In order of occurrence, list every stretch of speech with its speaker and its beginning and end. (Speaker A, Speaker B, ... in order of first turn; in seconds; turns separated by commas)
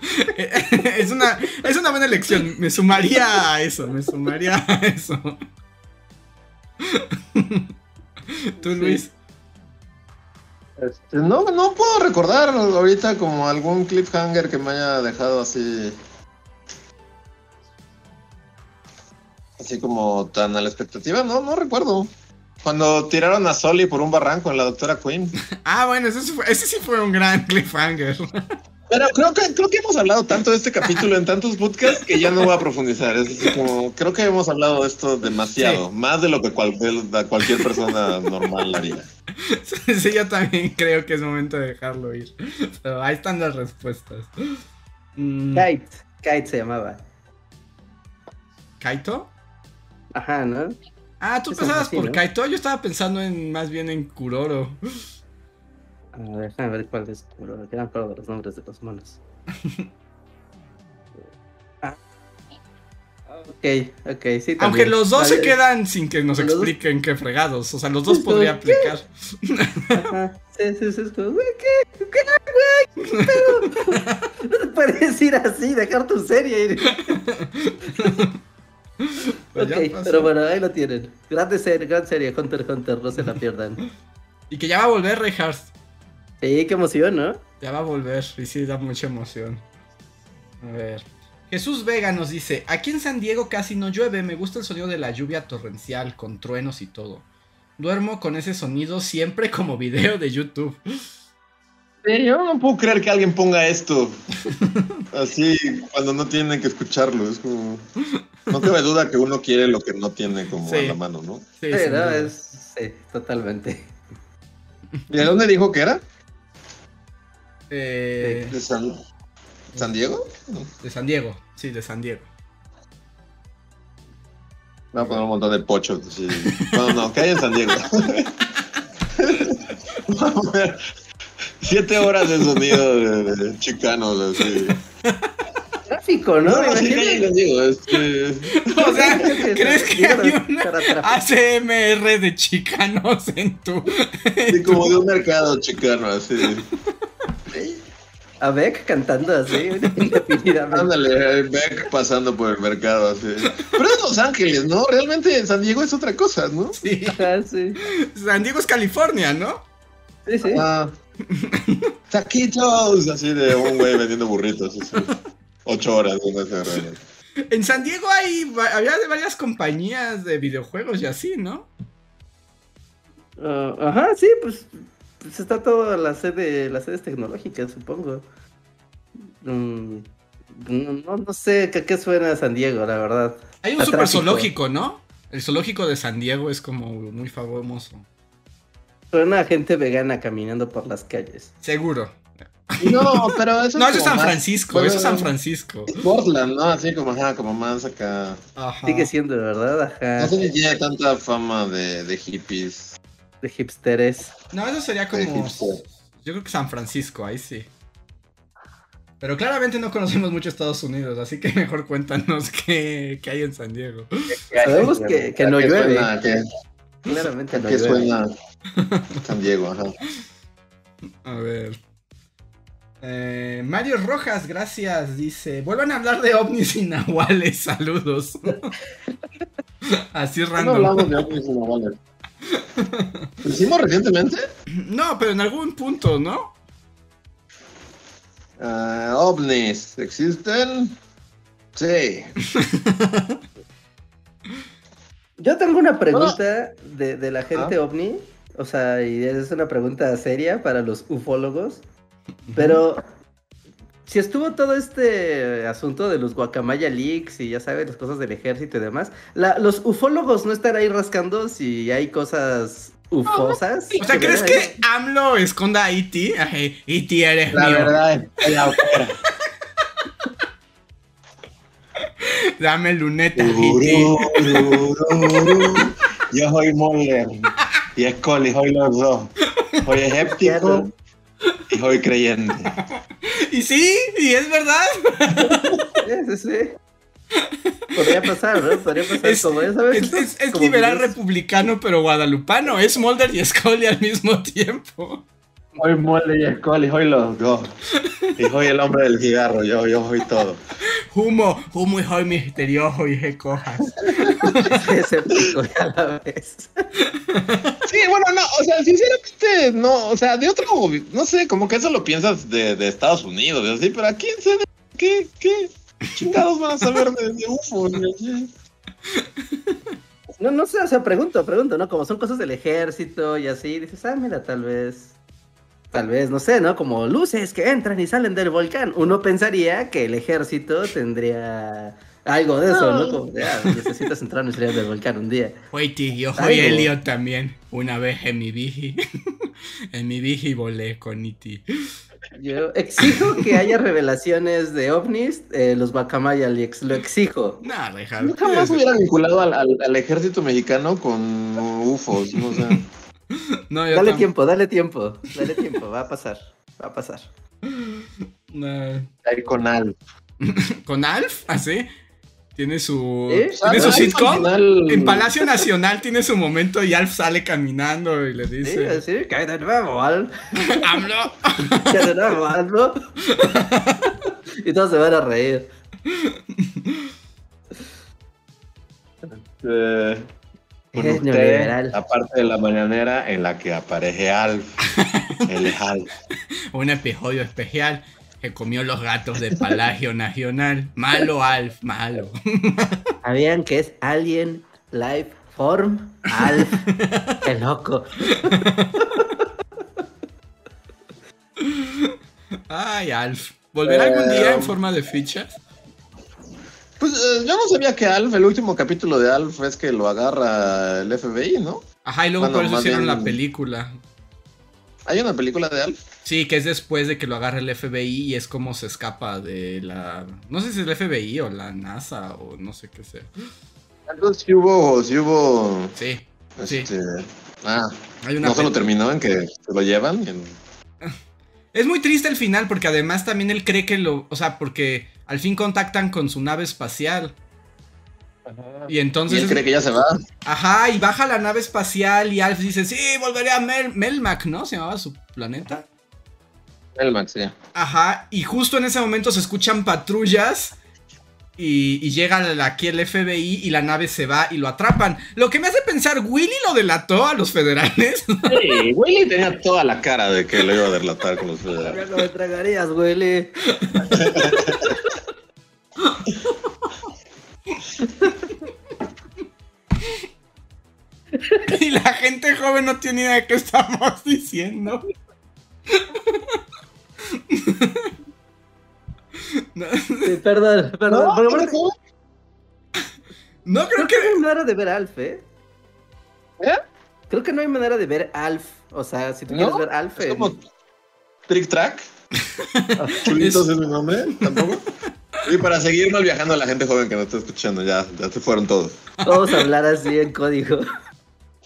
Speaker A: 0.1-5.4, Speaker A: 6.8-7.7, Speaker A: 8.3-9.1, Speaker B: 8.6-9.0, Speaker C: 10.8-16.0, Speaker C: 19.6-22.1, Speaker C: 22.6-25.4, Speaker A: 25.5-28.4, Speaker C: 28.9-39.1, Speaker A: 32.2-32.5, Speaker A: 35.6-35.9, Speaker A: 37.4-37.9, Speaker A: 39.4-44.3, Speaker A: 45.2-45.7, Speaker B: 45.5-47.0, Speaker A: 48.8-49.3, Speaker B: 50.1-50.8, Speaker A: 51.2-54.8, Speaker B: 51.5-52.2, Speaker B: 56.1-59.2, Speaker B: 63.3-65.5, Speaker A: 64.6-70.1, Speaker B: 66.4-66.7, Speaker B: 68.1-68.9, Speaker B: 69.9-77.2, Speaker A: 73.0-74.3, Speaker A: 76.9-78.4, Speaker A: 79.0-80.3, Speaker B: 79.6-83.8, Speaker A: 84.5-85.7, Speaker B: 86.4-87.4, Speaker A: 87.6-89.6, Speaker A: 90.6-97.2, Speaker A: 97.8-101.1, Speaker C: 102.0-104.2, Speaker A: 104.5-105.0, Speaker C: 105.1-107.9, Speaker C: 108.5-111.5, Speaker A: 110.7-111.0, Speaker A: 111.6-112.3, Speaker B: 111.7-113.9, Speaker C: 115.1-116.0, Speaker A: 117.7-118.6, Speaker B: 118.2-118.5, Speaker C: 118.5-119.0, Speaker C: 119.7-120.7, Speaker A: 120.8-122.3, Speaker C: 124.9-128.3, Speaker A: 126.5-127.0, Speaker C: 129.2-130.8, Speaker C: 131.6-134.8, Speaker A: 132.6-132.8, Speaker A: 134.4-135.3, Speaker B: 135.9-137.3, Speaker C: 136.4-139.1, Speaker A: 138.5-144.9, Speaker B: 138.7-141.2, Speaker C: 144.5-146.7, Speaker B: 148.4-150.9, Speaker C: 150.7-156.8, Speaker A: 156.8-157.2, Speaker B: 157.1-157.8, Speaker A: 157.8-159.6, Speaker B: 160.3-160.7, Speaker C: 160.4-160.9, Speaker A: 161.3-161.9, Speaker C: 162.1-165.1, Speaker A: 163.6-163.8, Speaker C: 165.7-167.0, Speaker A: 167.5-171.7, Speaker B: 173.4-178.2, Speaker B: 179.4-184.5, Speaker A: 183.6-188.0, Speaker B: 189.1-191.5, Speaker A: 191.6-196.0, Speaker C: 192.8-195.3, Speaker C: 195.9-198.4, Speaker A: 198.6-199.1, Speaker B: 198.8-200.3, Speaker C: 200.2-203.0, Speaker B: 203.4-204.3, Speaker A: 204.5-207.7, Speaker C: 205.1-205.8, Speaker A: 209.2-214.9, Speaker C: 214.3-216.4, Speaker B: 214.6-216.1, Speaker B: 217.1-218.1, Speaker C: 217.5-218.3, Speaker A: 218.7-219.2, Speaker C: 219.2-220.0, Speaker A: 221.2-221.8, Speaker A: 223.0-228.8, Speaker A: 229.9-231.1, Speaker C: 230.6-232.0, Speaker A: 232.5-233.3, Speaker C: 233.4-234.5, Speaker A: 234.7-236.5, Speaker C: 238.6-240.9, Speaker C: 241.8-242.4, Speaker A: 242.5-243.4, Speaker B: 245.4-251.8, Speaker C: 246.1-246.4, Speaker A: 252.5-252.8, Speaker B: 252.6-253.0, Speaker B: 254.1-264.8, Speaker A: 264.0-267.9, Speaker C: 267.5-269.2, Speaker A: 272.2-275.7, Speaker C: 273.4-280.9, Speaker B: 280.3-280.9, Speaker C: 281.7-282.8, Speaker A: 282.8-285.8, Speaker C: 285.4-285.8, Speaker B: 286.0-286.8, Speaker A: 287.4-288.2, Speaker B: 287.9-291.1, Speaker A: 289.2-295.2, Speaker C: 295.8-297.8, Speaker A: 298.0-298.3, Speaker C: 298.4-300.6, Speaker A: 301.1-304.8, Speaker C: 304.1-304.6, Speaker B: 304.6-306.9, Speaker A: 307.0-307.8, Speaker C: 307.9-318.5, Speaker A: 319.1-320.0, Speaker B: 320.4-325.1, Speaker B: 325.9-335.6, Speaker C: 332.7-333.2, Speaker A: 333.7-334.0, Speaker A: 335.7-341.6, Speaker B: 336.4-336.9, Speaker B: 342.4-347.6, Speaker A: 343.0-343.6, Speaker A: 347.6-348.8, Speaker C: 348.2-352.9, Speaker A: 352.5-352.8, Speaker A: 353.3-354.3, Speaker B: 353.9-357.3, Speaker A: 357.7-359.1, Speaker C: 359.2-359.9, Speaker A: 360.4-361.9, Speaker A: 362.6-369.0, Speaker B: 363.3-364.1, Speaker C: 363.6-365.6, Speaker B: 368.6-370.8, Speaker A: 370.6-372.1, Speaker B: 371.7-373.0, Speaker A: 373.3-374.2, Speaker B: 374.6-375.7, Speaker A: 376.1-377.1, Speaker C: 379.3-380.3, Speaker C: 380.9-384.8, Speaker B: 380.9-382.0, Speaker A: 384.9-385.5, Speaker C: 385.5-386.1, Speaker A: 386.7-393.1, Speaker B: 393.2-396.9, Speaker A: 396.4-397.4, Speaker B: 397.4-398.6, Speaker A: 398.3-399.2, Speaker A: 401.6-402.2, Speaker A: 402.7-405.6, Speaker C: 403.8-404.8, Speaker C: 407.0-411.9, Speaker A: 412.1-414.0, Speaker C: 412.4-413.4, Speaker C: 415.1-416.0, Speaker A: 416.2-423.5, Speaker C: 424.1-425.9, Speaker A: 426.0-426.9, Speaker C: 426.6-430.6, Speaker A: 428.2-428.8, Speaker A: 431.7-437.4, Speaker C: 438.5-440.2, Speaker A: 438.9-439.6, Speaker A: 440.4-445.8, Speaker C: 446.9-447.5, Speaker A: 447.8-450.8, Speaker A: 451.6-458.8, Speaker C: 458.5-462.0, Speaker B: 461.8-464.7, Speaker C: 464.1-465.0, Speaker A: 466.0-466.7, Speaker A: 471.7-475.0, Speaker A: 475.9-476.6, Speaker A: 477.3-478.1, Speaker A: 479.4-480.4, Speaker B: 480.2-481.8, Speaker C: 481.1-481.9, Speaker A: 483.6-484.4, Speaker B: 483.9-485.4, Speaker B: 487.3-490.5, Speaker C: 489.5-490.6, Speaker C: 491.5-492.1, Speaker A: 492.5-493.7, Speaker B: 493.0-493.2, Speaker C: 493.2-494.9, Speaker A: 494.3-494.7, Speaker C: 495.4-499.0, Speaker A: 499.2-499.7, Speaker B: 499.2-500.9